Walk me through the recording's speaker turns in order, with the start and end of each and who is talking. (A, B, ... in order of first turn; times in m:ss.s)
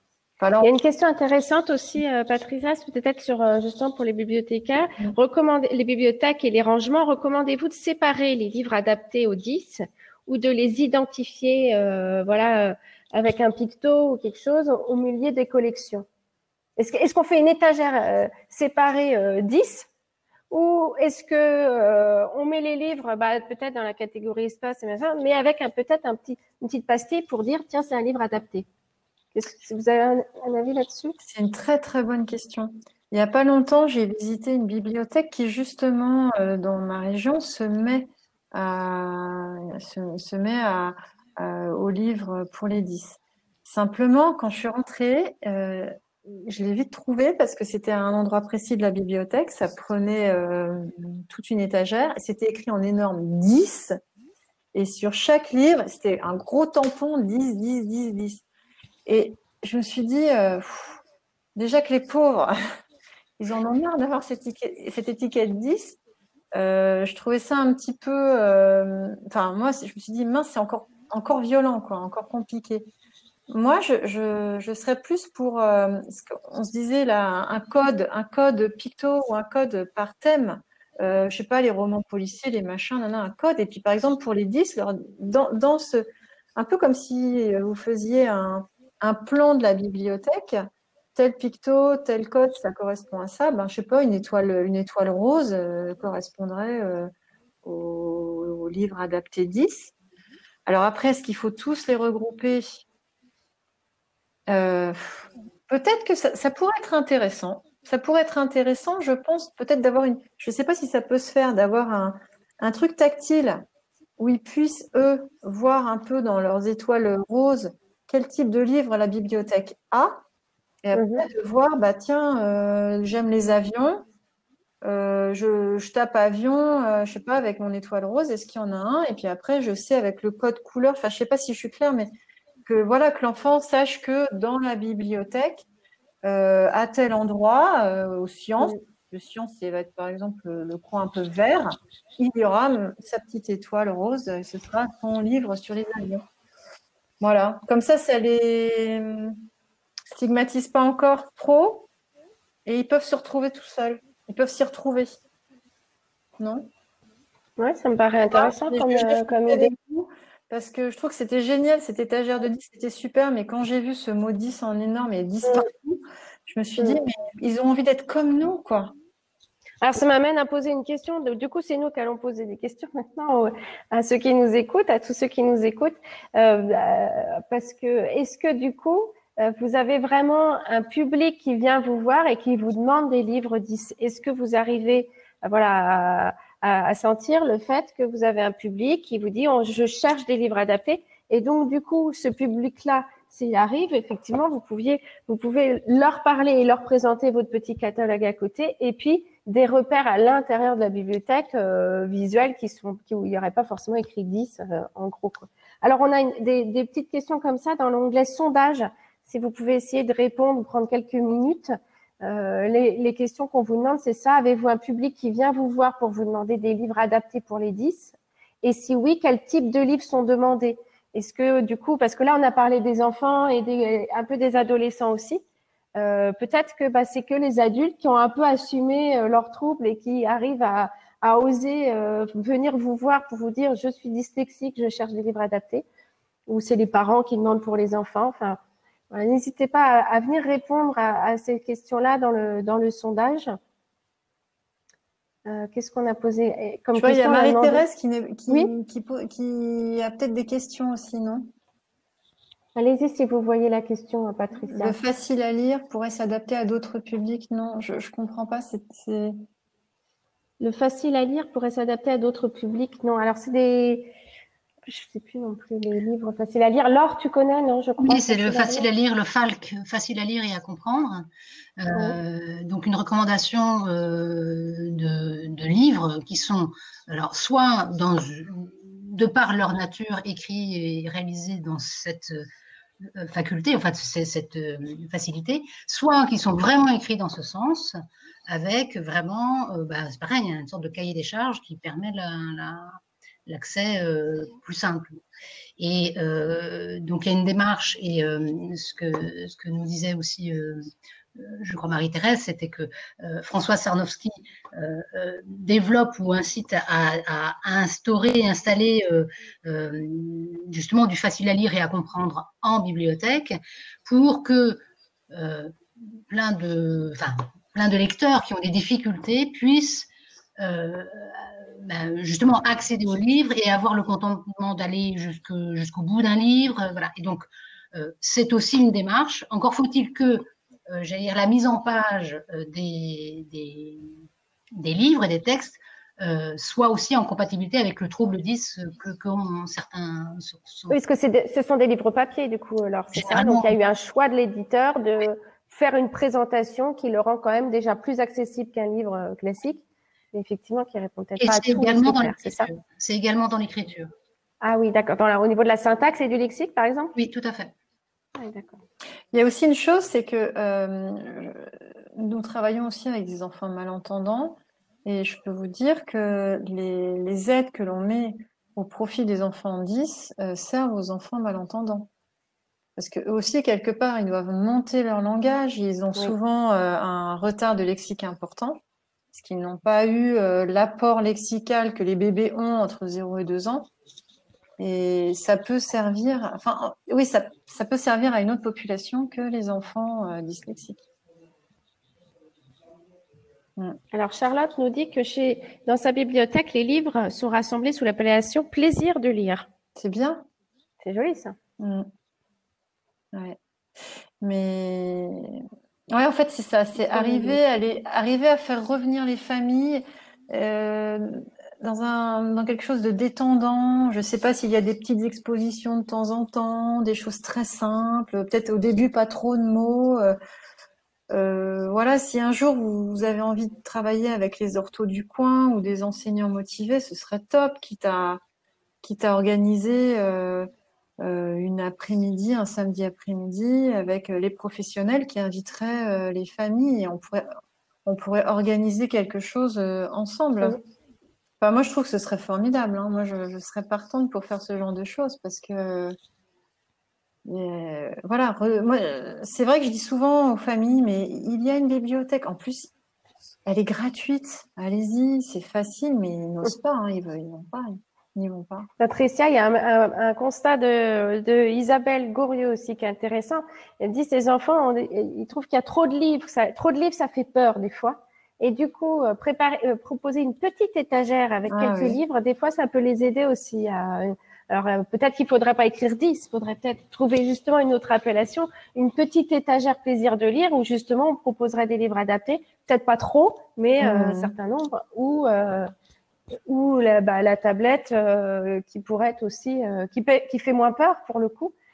0:00.4-0:00.7 A
0:00.6-0:16.0 B
0:16.8-0:19.9 B
0:20.5-0:28.7 B
0:29.3-0:31.2 B
0:31.2-0:54.0 A
0:54.7-0:58.4 A
0:59.0-1:01.0 A
1:01.6-1:02.6 A
1:03.4-1:06.0 A
1:06.5-1:12.9 A
1:13.5-1:26.0 A
1:26.6-1:37.1 A
1:37.6-1:39.9 A
1:40.6-1:42.8 A
1:44.5-1:53.6 A
1:54.2-2:00.2 A
2:00.8-2:04.0 A
2:00.9-2:01.2 B
2:04.8-2:12.1 A
2:12.6-2:15.6 A
2:16.2-2:26.2 A
2:27.2-2:29.4 A
2:30.1-2:31.9 A
2:32.6-2:35.2 A
2:36.4-2:36.7 A
2:37.6-2:39.7 B
2:38.3-2:48.9 A
2:49.8-3:45.4 B
3:46.0-3:55.8 B
3:56.5-3:58.6 B
3:59.1-4:03.6 B
4:05.4-4:07.8 B
4:06.9-4:11.5 A
4:12.8-4:15.0 B
4:14.7-4:19.4 A
4:20.6-4:24.1 B
4:24.9-4:28.9 B
4:28.0-4:31.3 C
4:31.8-4:42.5 C
4:43.0-4:55.2 C
4:55.8-5:20.1 C
5:20.6-5:34.2 C
5:34.8-5:41.0 C
5:40.9-5:52.7 B
5:43.2-5:43.8 C
5:51.4-5:54.1 C
5:54.6-5:57.1 B
5:57.2-5:57.7 C
5:58.4-5:58.8 B
5:59.3-6:12.1 A
6:13.0-6:18.8 A
6:19.3-6:23.9 A
6:24.8-6:31.0 A
6:34.1-6:39.7 B
6:40.0-6:40.4 A
6:41.0-6:41.6 B
6:41.8-6:42.1 A
6:43.3-7:00.4 A
6:47.1-6:47.6 B
7:01.3-7:08.4 A
7:09.0-7:17.5 A
7:18.0-7:20.8 A
7:21.6-7:26.2 A
7:27.4-7:32.9 A
7:33.6-7:38.9 A
7:39.0-8:05.9 B
7:51.7-7:52.2 A
8:04.0-8:04.5 A
8:06.7-8:11.7 B